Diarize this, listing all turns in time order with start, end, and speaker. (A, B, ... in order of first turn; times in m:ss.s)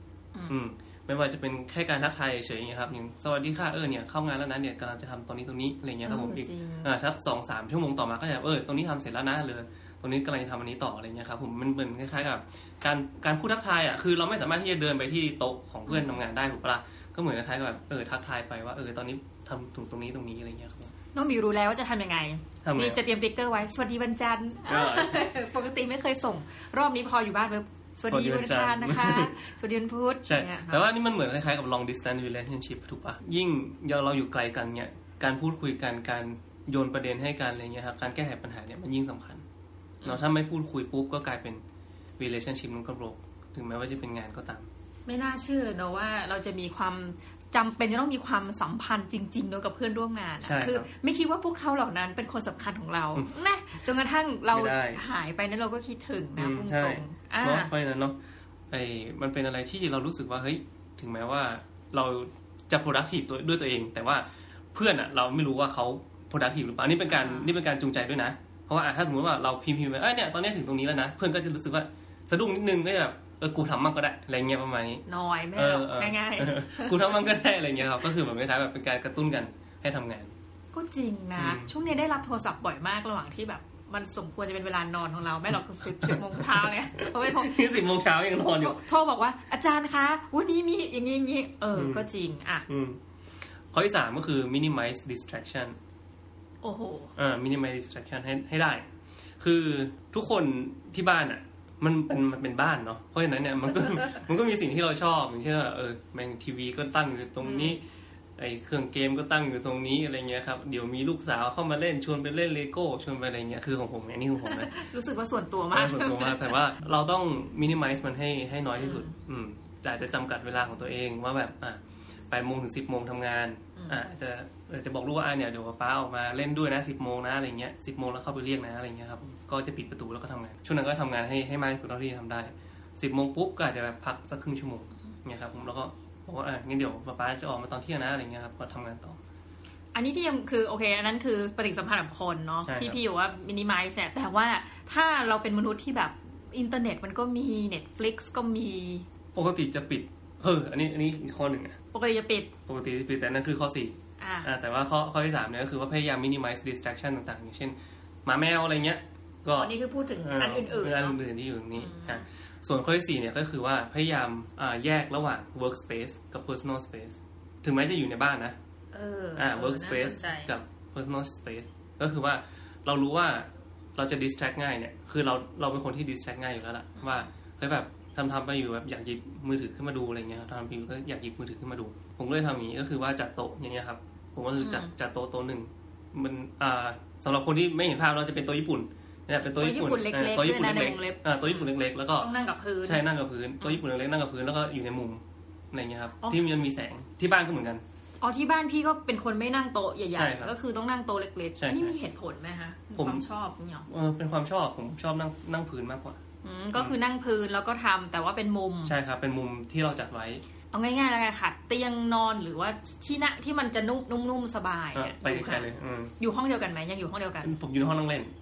0:00.3-0:00.6 A
0:00.5-0:20.9 B
0:06.0-0:06.9 A
0:15.9-0:16.2 A
0:21.1-0:30.8 A
0:22.6-0:23.0 B
0:24.7-0:25.3 B
0:28.1-0:29.3 B
0:30.2-0:39.4 B
0:40.0-0:41.6 B
0:42.2-0:44.7 B
0:45.1-0:57.7 A
0:50.4-0:50.9 B
0:54.5-0:55.0 B
0:56.4-0:58.2 B
0:58.7-1:15.0 B
1:07.1-1:07.5 A
1:15.0-1:17.3 A
1:15.6-1:20.3 B
1:20.7-1:27.6 A
1:21.4-1:21.7 B
1:25.5-1:28.8 B
1:28.5-1:32.7 A
1:31.7-1:32.1 B
1:32.7-1:33.0 B
1:33.7-1:35.8 B
1:36.6-1:37.1 A
1:37.2-1:38.8 B
1:39.4-1:47.8 B
1:47.4-1:47.8 A
1:48.4-1:54.7 B
1:54.4-1:56.6 A
1:55.7-2:19.2 B
1:58.8-1:59.1 A
2:03.8-2:04.0 A
2:19.9-2:29.1 A
2:22.6-2:23.0 B
2:29.3-2:31.8 B
2:31.9-2:32.5 A
2:32.7-2:48.6 B
2:34.2-2:34.5 A
2:39.6-2:41.2 A
2:41.7-2:42.2 A
2:48.9-2:50.5 A
2:49.4-3:12.3 B
2:57.0-2:57.3 A
3:04.6-3:04.9 A
3:09.6-3:11.7 A
3:12.2-3:13.0 A
3:12.8-3:17.8 B
3:16.2-3:16.5 A
3:18.2-3:23.9 A
3:20.1-3:20.6 B
3:21.6-3:22.0 B
3:23.0-3:23.2 B
3:23.9-3:26.2 B
3:26.4-3:29.0 A
3:28.8-3:30.4 B
3:30.7-3:37.5 A
3:34.9-3:36.1 B
3:37.4-3:38.3 B